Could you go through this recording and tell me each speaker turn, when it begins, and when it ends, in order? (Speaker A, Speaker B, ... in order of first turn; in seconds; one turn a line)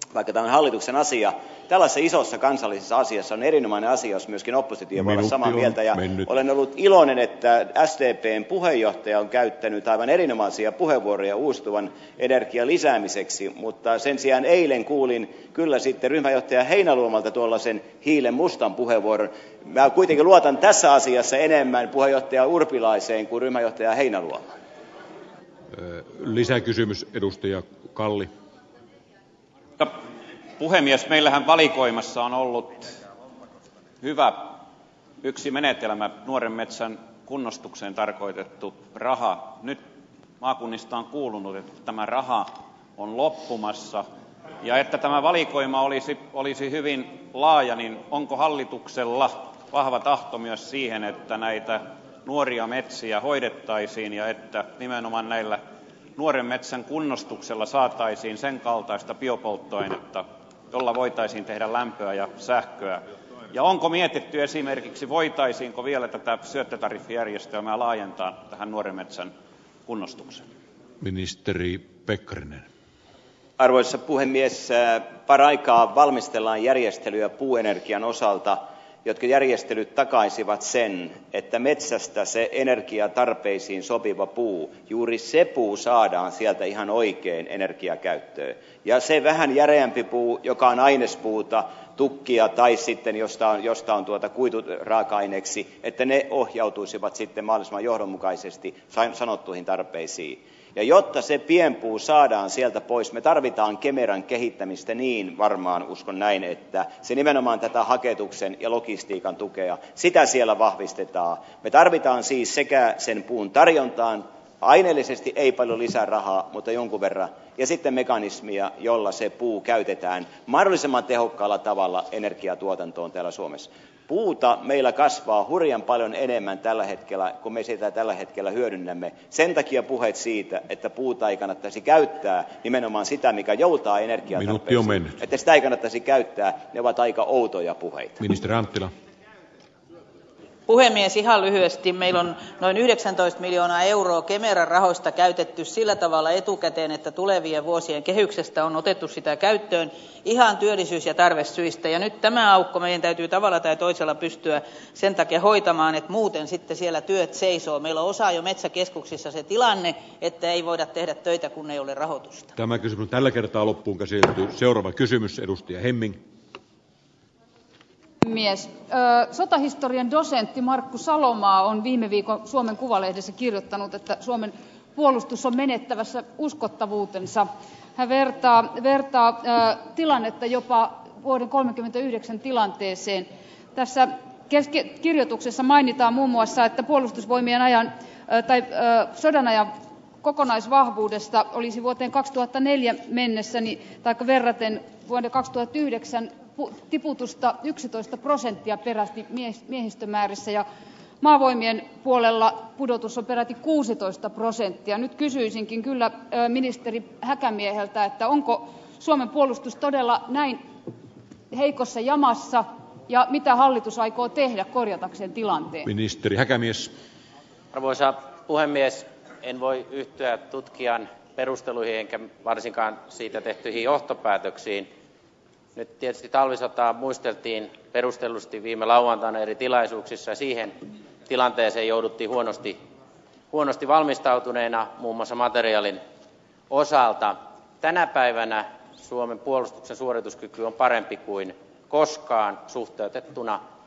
Speaker A: 0.1-24.5
Speaker B: 5.0-6.3
Speaker B: 25.7-28.3
Speaker C: 30.6-32.9
Speaker C: 34.0-34.6
Speaker C: 35.2-39.8
Speaker C: 40.4-44.1
Speaker C: 44.6-55.6
Speaker C: 56.2-69.3
Speaker C: 69.9-70.5
Speaker B: 71.0-72.7
Speaker A: 73.6-138.2
Speaker B: 134.4-135.2
Speaker B: 138.2-138.9
Speaker D: 140.7-162.5
Speaker B: 162.6-166.2
Speaker E: 168.2-200.7
Speaker E: 201.2-210.6
Speaker E: 211.5-215.9
Speaker B: 215.8-216.9
Speaker F: 217.7-224.9
Speaker F: 225.8-232.8
Speaker F: 233.5-236.0
Speaker F: 236.7-243.6